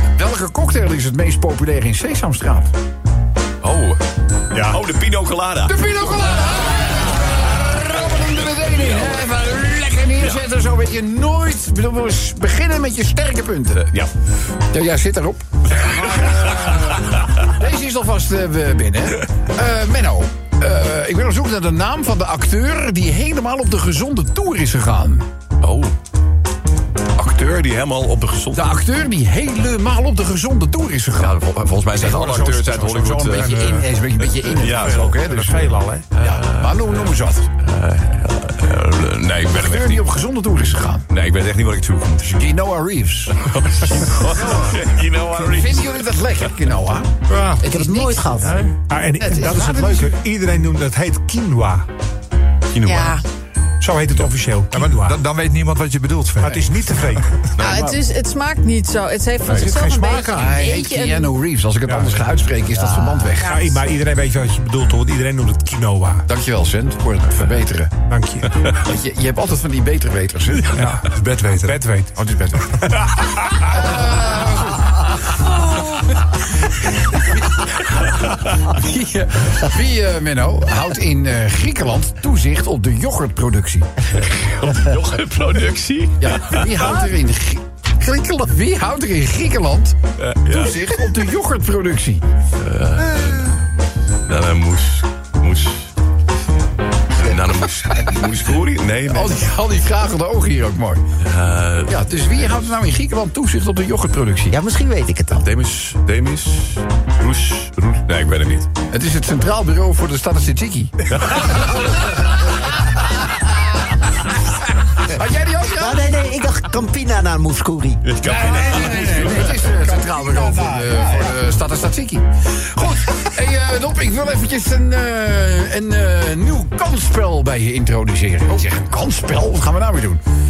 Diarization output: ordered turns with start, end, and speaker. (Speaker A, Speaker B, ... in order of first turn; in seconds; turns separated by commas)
Speaker A: 0.2-2.7, Speaker B: 3.6-4.0, Speaker C: 4.5-4.8, Speaker B: 4.6-5.8, Speaker A: 5.7-13.9, Speaker B: 8.7-9.3, Speaker B: 13.8-14.1, Speaker A: 14.7-25.3, Speaker B: 15.9-16.9, Speaker B: 25.6-25.9, Speaker B: 27.2-28.8, Speaker A: 28.5-37.5, Speaker B: 31.2-33.7, Speaker C: 33.5-33.9, Speaker B: 34.5-35.4, Speaker C: 34.9-36.1, Speaker B: 36.2-40.1, Speaker A: 39.5-41.1, Speaker B: 41.1-42.4, Speaker A: 42.2-43.4, Speaker B: 43.4-46.1, Speaker A: 45.3-48.6, Speaker C: 47.3-47.6, Speaker D: 47.6-48.6, Speaker E: 47.8-48.4, Speaker C: 48.7-51.9, Speaker E: 49.2-49.9, Speaker B: 52.7-53.2, Speaker E: 52.8-53.2, Speaker C: 53.8-55.2, Speaker F: 54.7-56.7, Speaker C: 56.4-57.4, Speaker B: 57.6-58.0, Speaker E: 57.6-61.4, Speaker C: 59.5-60.5, Speaker A: 60.0-63.5, Speaker C: 61.9-62.3, Speaker D: 62.8-63.2, Speaker E: 63.4-63.7, Speaker C: 63.4-66.3, Speaker A: 66.3-67.9, Speaker C: 68.1-68.5, Speaker A: 68.7-70.9, Speaker C: 70.8-72.1, Speaker F: 70.8-71.8, Speaker A: 72.2-75.4, Speaker C: 72.8-73.3, Speaker A: 78.0-83.9, Speaker B: 84.1-86.8, Speaker A: 86.2-92.2, Speaker B: 90.2-90.8, Speaker B: 92.6-93.7, Speaker B: 94.2-95.9, Speaker B: 97.2-99.5, Speaker A: 99.1-101.0, Speaker B: 101.2-102.7, Speaker A: 101.9-104.6, Speaker D: 104.5-105.5, Speaker B: 105.3-108.7, Speaker A: 108.9-112.0, Speaker B: 111.2-111.9, Speaker A: 114.5-116.0, Speaker D: 115.7-118.0, Speaker B: 118.0-119.5, Speaker A: 118.2-130.2, Speaker C: 118.4-121.4